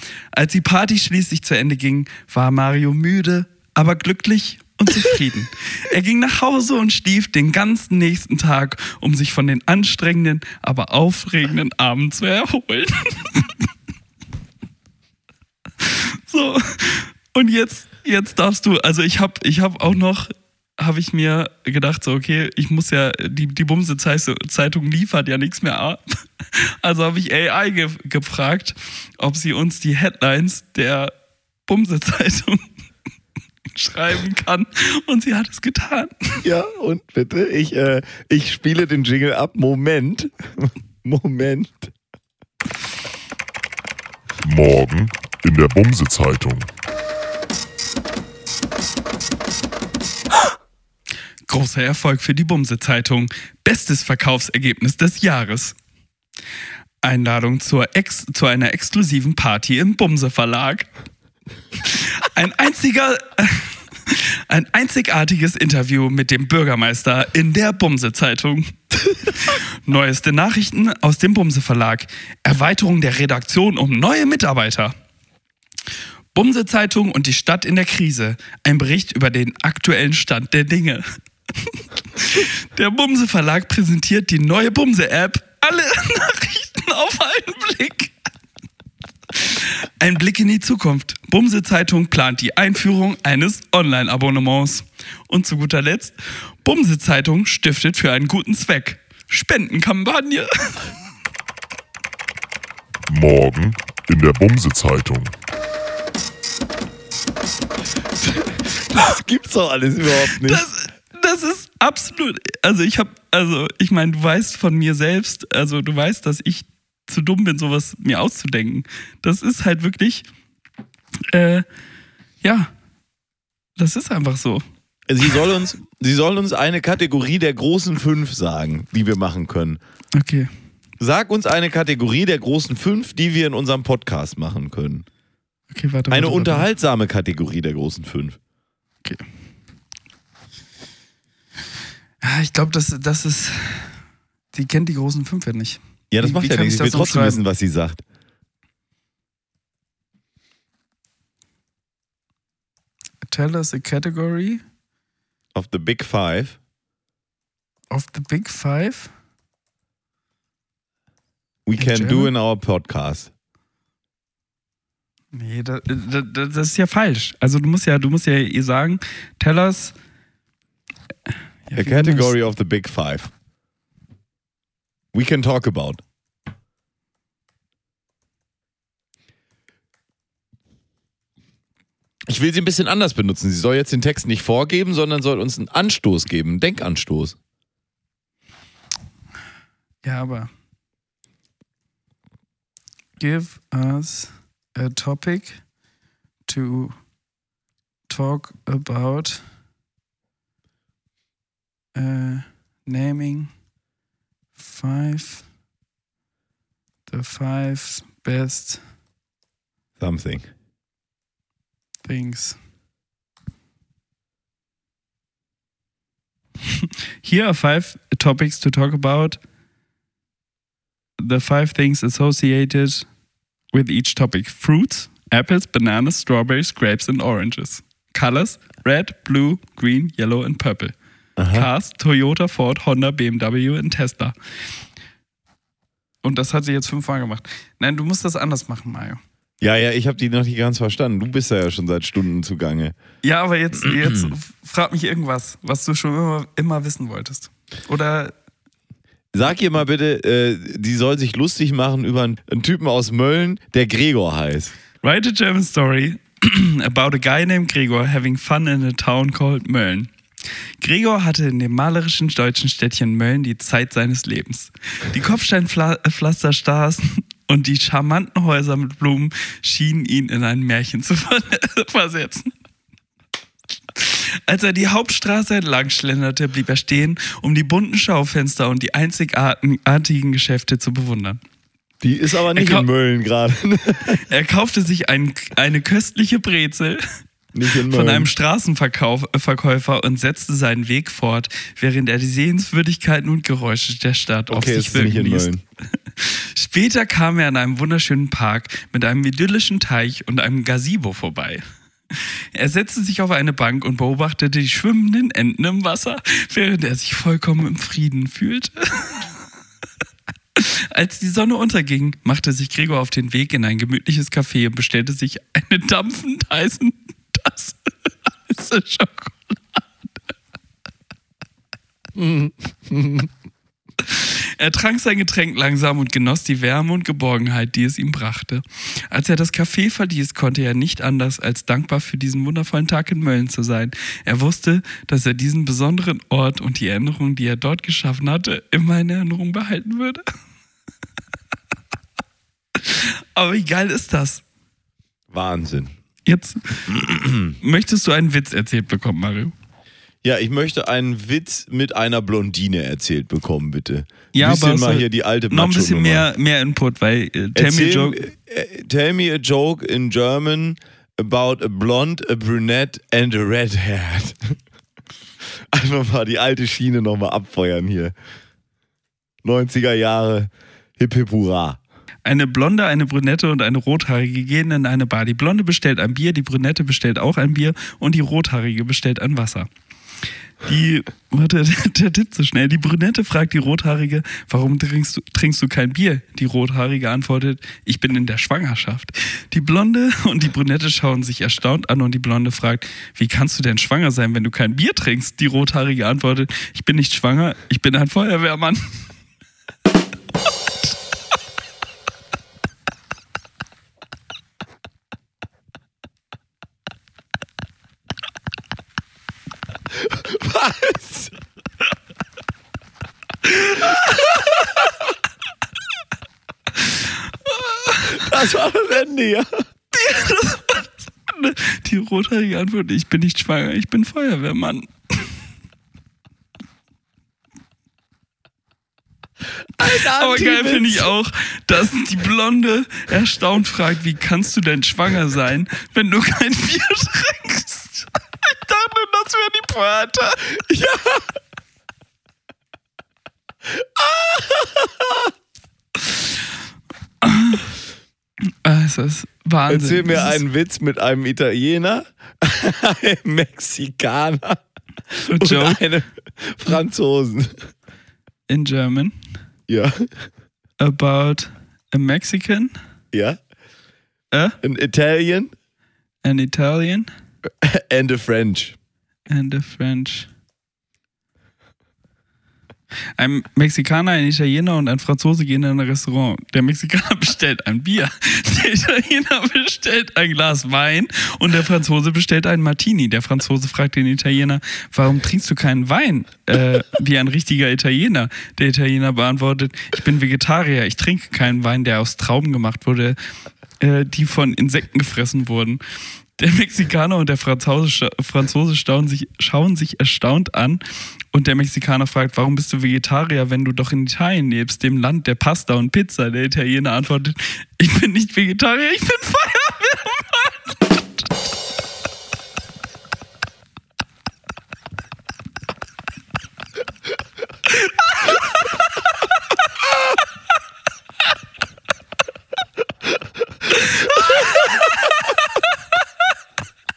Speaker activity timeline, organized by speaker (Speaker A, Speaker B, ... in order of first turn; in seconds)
Speaker A: 0.3-13.5, 15.8-31.1, 31.7-32.6, 33.7-36.4, 51.5-55.8, 57.0-60.9, 61.9-74.9, 76.3-81.0, 82.2-88.1, 89.3-100.9, 110.4-120.2, 121.3-121.7, 122.4-122.7, 123.8-124.6, 130.2-130.5, 135.7-136.7, 142.2-144.0, 144.5-147.4, 153.2-154.6, 157.9-159.1, 161.8-162.3, 165.3-169.9, 171.7-172.3, 190.0-190.5, 193.2-195.6, 196.5-196.9, 198.1-199.4, 201.9-203.5, 204.6-205.5, 207.1-208.8, 212.0-212.6, 217.2-219.4, 221.2-223.1, 223.7-230.9, 231.5-234.3, 236.2-239.2, 243.2-248.3, 255.0-260.1, 260.8-272.5, 274.0-281.4, 282.5-282.9, 284.3-287.0, 287.9-295.5, 296.2-309.3, 310.6-319.8, 324.0-340.2, 342.8-344.4, 346.3-346.9, 347.6-349.5, 354.3-358.2, 372.2-379.7, 380.6-398.9, 417.5-418.2, 419.9-425.3, 430.1-440.6, 447.2-447.7, 448.6-450.4, 455.3-455.8, 458.5-459.1, 460.8-462.7, 464.3-464.6, 466.2-467.1, 469.3-470.3, 473.2-493.2, 493.8-495.8, 496.4-511.3
Speaker B: 36.4-41.9, 108.2-110.7, 125.1-129.8, 131.0-135.1, 136.1-138.4, 146.1-148.0, 155.6-156.6, 161.7-163.3, 171.8-173.3, 175.1-176.0, 182.3-187.4, 210.0-210.5, 231.4-231.7, 239.6-242.9, 243.8-244.3, 249.3-254.7, 282.0-284.2, 287.5-288.3, 294.5-295.6, 322.2-323.3, 345.3-345.9, 346.9-347.6, 350.2-356.3, 357.6-364.6, 365.7-368.1, 369.4-371.8, 409.9-411.3, 418.0-419.6, 429.8-431.1, 440.6-441.3, 443.7-445.3, 449.7-457.7, 459.7-460.2, 463.1-463.4, 464.6-465.5, 467.6-468.8, 524.1-524.8
Speaker C: 44.4-46.7, 103.1-105.3